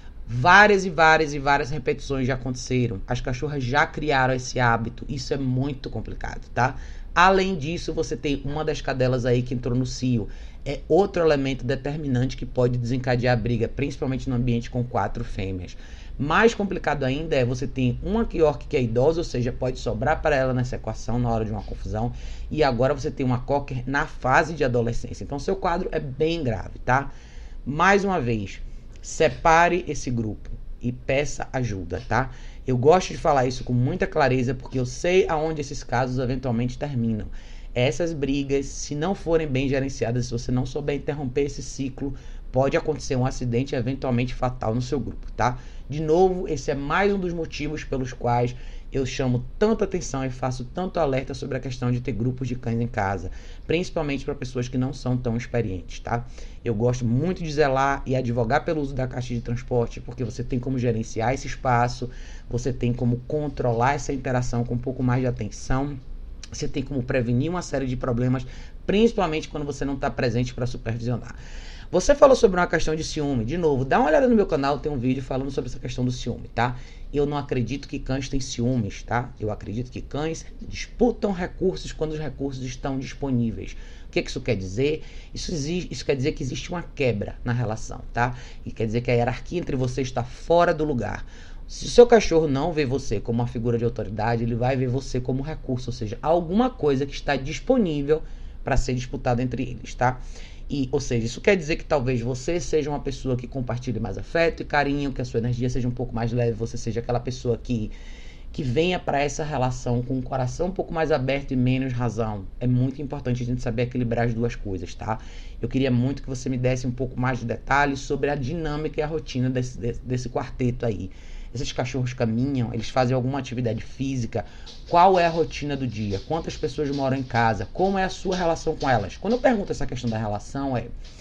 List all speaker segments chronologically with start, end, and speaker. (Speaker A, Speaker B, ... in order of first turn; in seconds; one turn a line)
Speaker A: 0.2-27.1
Speaker A: 27.6-66.0
Speaker A: 66.5-71.4
Speaker A: 71.9-107.9
Speaker A: 108.5-130.9